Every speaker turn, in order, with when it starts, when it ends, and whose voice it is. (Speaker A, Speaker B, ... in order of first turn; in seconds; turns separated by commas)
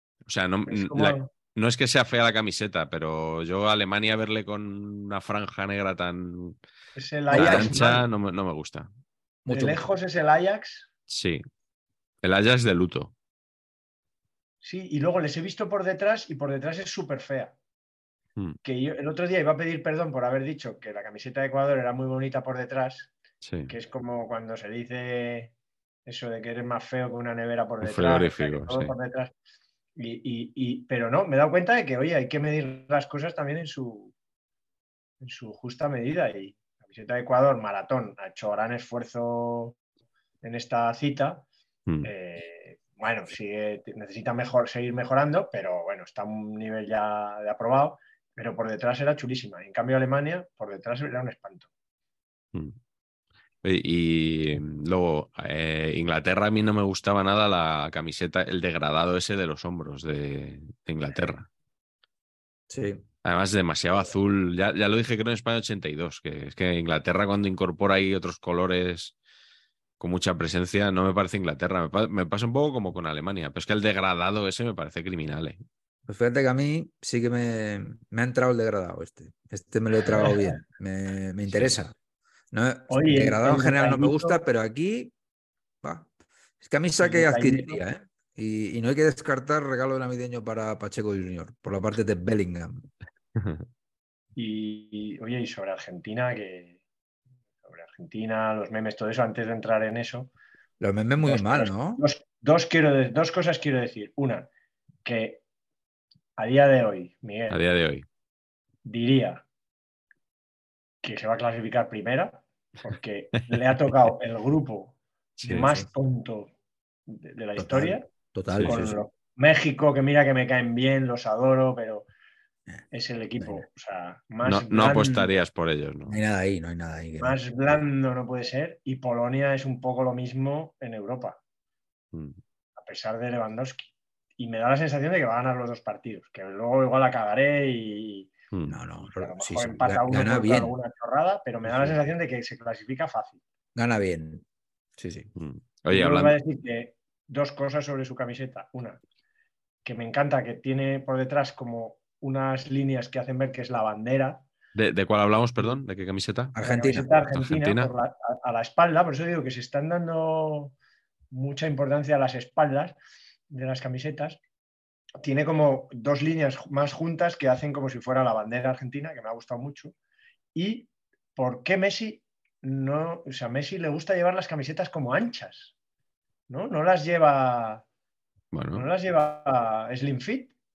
Speaker A: 0.3-6.6, Speaker B: 0.7-1.3, Speaker B: 7.0-8.0, Speaker C: 7.3-7.8, Speaker A: 7.3-8.9, Speaker C: 9.4-9.8, Speaker B: 9.5-10.9, Speaker A: 11.1-11.4, Speaker A: 12.2-13.1, Speaker B: 14.6-17.5, Speaker B: 18.6-23.1, Speaker A: 23.4-23.7, Speaker B: 23.7-25.5, Speaker B: 26.1-29.3, Speaker A: 27.8-28.9, Speaker B: 29.9-34.1, Speaker B: 35.2-39.8, Speaker B: 40.4-41.4, Speaker A: 41.9-42.1, Speaker B: 42.0-51.7, Speaker A: 53.6-61.5, Speaker C: 62.7-63.0, Speaker A: 63.2-69.1, Speaker A: 70.0-75.6, Speaker C: 76.1-82.0, Speaker A: 81.5-81.7, Speaker C: 82.5-85.1, Speaker B: 82.9-84.4, Speaker C: 85.8-86.1, Speaker C: 86.6-92.9, Speaker B: 87.0-87.8, Speaker A: 93.3-93.6, Speaker B: 94.3-96.8, Speaker B: 97.6-100.3, Speaker C: 100.8-102.0, Speaker B: 101.2-104.5, Speaker B: 105.0-105.4, Speaker B: 106.4-107.6, Speaker A: 107.5-108.0, Speaker B: 108.8-109.4, Speaker B: 111.0-116.5, Speaker A: 115.4-115.7, Speaker B: 117.1-118.0, Speaker C: 117.5-119.0, Speaker B: 118.6-122.1, Speaker B: 122.9-125.3, Speaker A: 124.4-126.2, Speaker C: 126.1-127.4, Speaker B: 127.2-131.4, Speaker A: 132.1-132.4, Speaker B: 132.8-138.3, Speaker A: 138.5-138.8, Speaker C: 138.7-140.7, Speaker B: 139.2-143.4, Speaker A: 141.7-141.9, Speaker C: 143.7-144.4, Speaker C: 145.0-145.3, Speaker A: 145.3-146.4, Speaker B: 145.9-149.0, Speaker B: 149.8-154.4, Speaker A: 154.7-156.5, Speaker C: 156.5-157.1, Speaker B: 156.6-160.8, Speaker A: 157.1-157.9, Speaker B: 161.3-163.0, Speaker B: 163.5-164.4, Speaker B: 165.2-169.9, Speaker B: 170.5-175.7, Speaker B: 176.5-177.8, Speaker A: 178.5-178.9, Speaker B: 178.7-180.5